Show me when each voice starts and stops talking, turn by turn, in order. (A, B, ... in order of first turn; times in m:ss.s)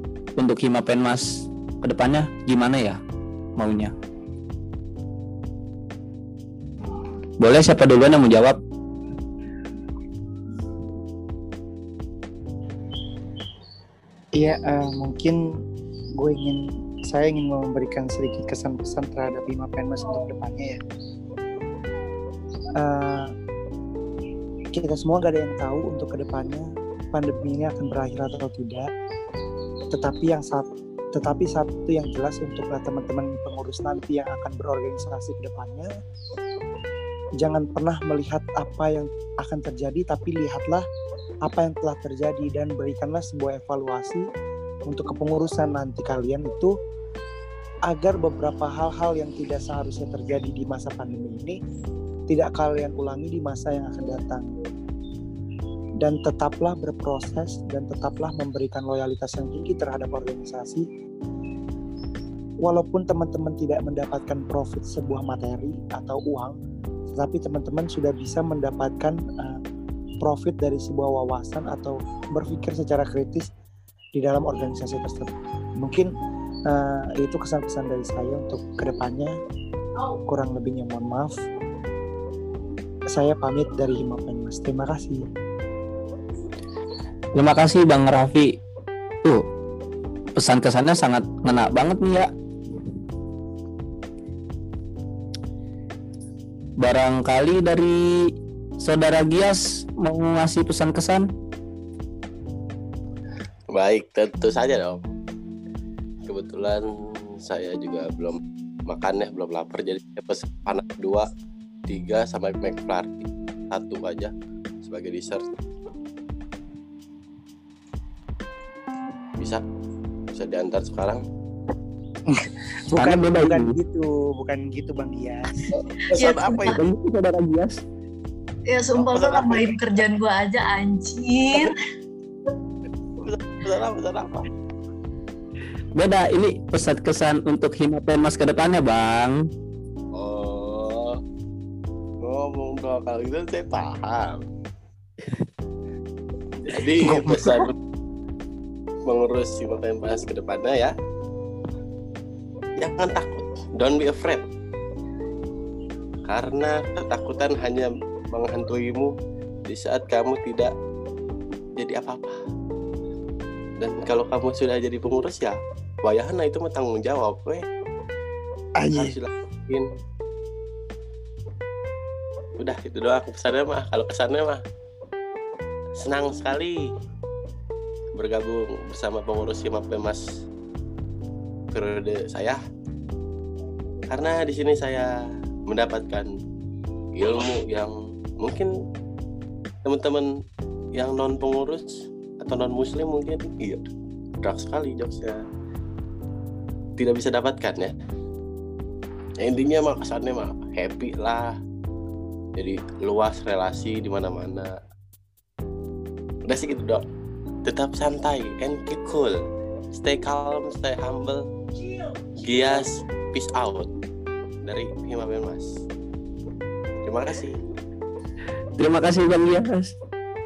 0:00.4-0:03.0 A
0:03.6-0:03.9 A
0:07.4-0:08.6 A
0:14.4-0:15.4 B
0:16.2-0:20.8 B
0:22.8-0:23.3 B
0:24.7-0:28.9 B
0:29.9-0:35.9 B
0:37.4-0:40.8 B
0:41.4-0:44.3 B
0:44.9-0:46.7 B
0:47.9-0:51.6 B
0:52.3-0:54.6 B
0:56.0-1:00.8 B
1:02.6-1:06.6 B
1:07.1-1:09.6 B
1:10.2-1:13.5 B
1:14.1-1:16.1 B
1:16.7-1:19.3 B
1:20.3-1:21.4 B
1:23.1-1:25.3 B
1:27.3-1:28.6 A
1:30.4-1:32.3 A
1:36.8-1:41.3 A
1:43.7-1:45.1 C
1:46.2-1:51.3 C
1:51.9-1:55.4 C
2:00.3-2:01.2 C
2:02.3-2:05.6 B
2:03.0-2:03.7 A
2:06.1-2:06.7 C
2:06.1-2:06.8 D
2:06.6-2:07.8 A
2:08.7-2:11.8 D
2:09.0-2:09.7 C
2:13.2-2:14.5 C
2:15.9-2:19.5 A
2:20.1-2:21.2 C
2:22.2-2:24.4 C
2:26.6-2:27.7 C
2:27.2-2:27.6 B
2:29.1-2:30.9 C
2:32.8-2:34.4 C
2:36.3-2:39.1 C
2:39.6-2:40.7 C
2:41.8-2:42.4 C
2:43.8-2:47.6 C
2:48.8-2:49.1 B
2:48.9-2:49.9 C
2:52.6-2:54.6 C
2:56.0-2:56.9 C
2:58.2-3:00.2 C
3:01.7-3:02.6 C
3:04.1-3:05.1 C
3:05.7-3:06.3 C
3:07.2-3:08.7 C
3:09.8-3:10.3 C
3:10.9-3:11.9 C
3:12.4-3:13.8 C
3:14.4-3:15.4 C
3:17.0-3:17.9 C
3:19.4-3:21.5 C
3:22.6-3:24.7 C
3:26.5-3:27.0 C
3:27.6-3:29.4 C
3:29.9-3:31.4 C
3:32.4-3:33.9 C
3:34.6-3:35.8 C
3:37.0-3:37.6 C
3:38.8-3:39.9 A